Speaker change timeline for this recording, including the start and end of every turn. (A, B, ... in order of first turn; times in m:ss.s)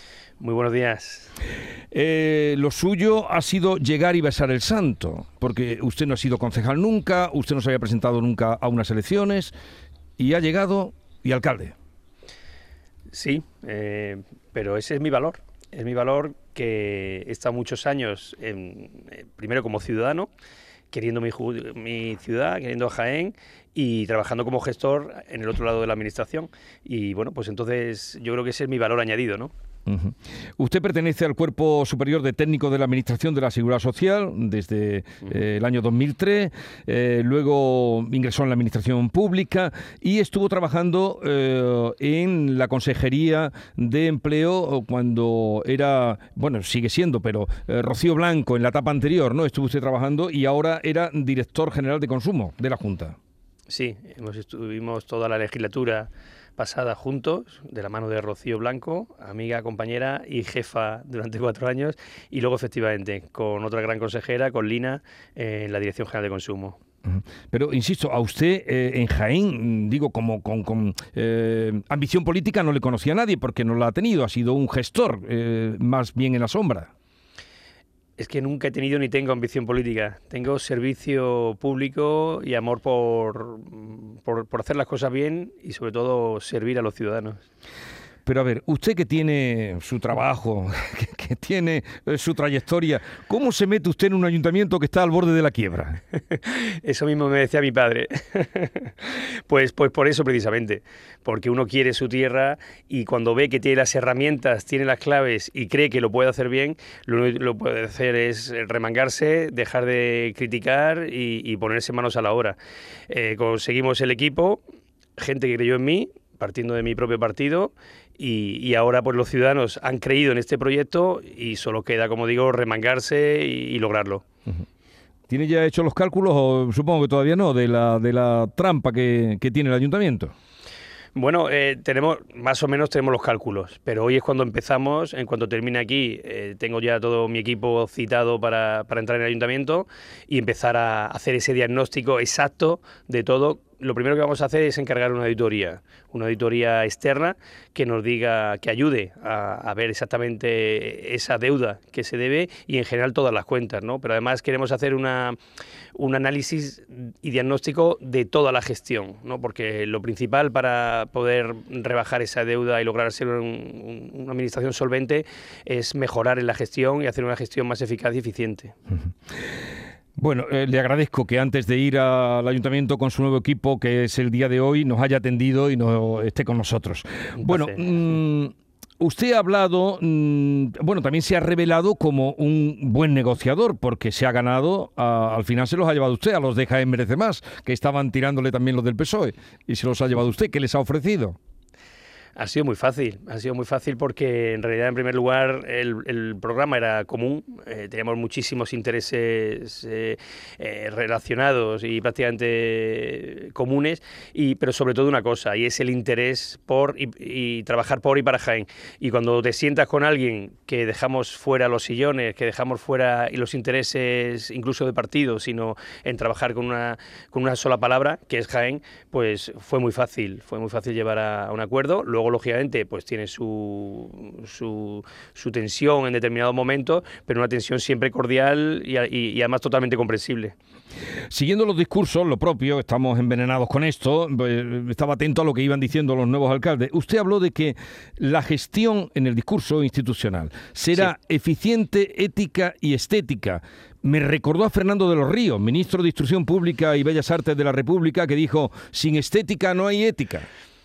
0:00.4-0:01.3 A
0:01.9-0:09.5 B
0:10.2-0:11.7 B
0:13.1-0:20.3 A
0:20.9-0:29.5 A
0:29.9-0:53.2 B
0:53.7-1:06.8 A
1:07.0-1:16.9 B
1:18.2-1:27.4 A
1:28.2-1:36.0 B
1:36.3-1:52.6 A
1:53.1-1:54.6 A
1:55.2-2:04.2 A
2:05.3-2:10.3 B
2:11.1-2:35.4 A
2:35.9-2:48.7 A
2:50.2-3:11.4 B
2:57.4-2:57.9 A
3:12.4-3:50.5 A
3:51.3-4:10.5 B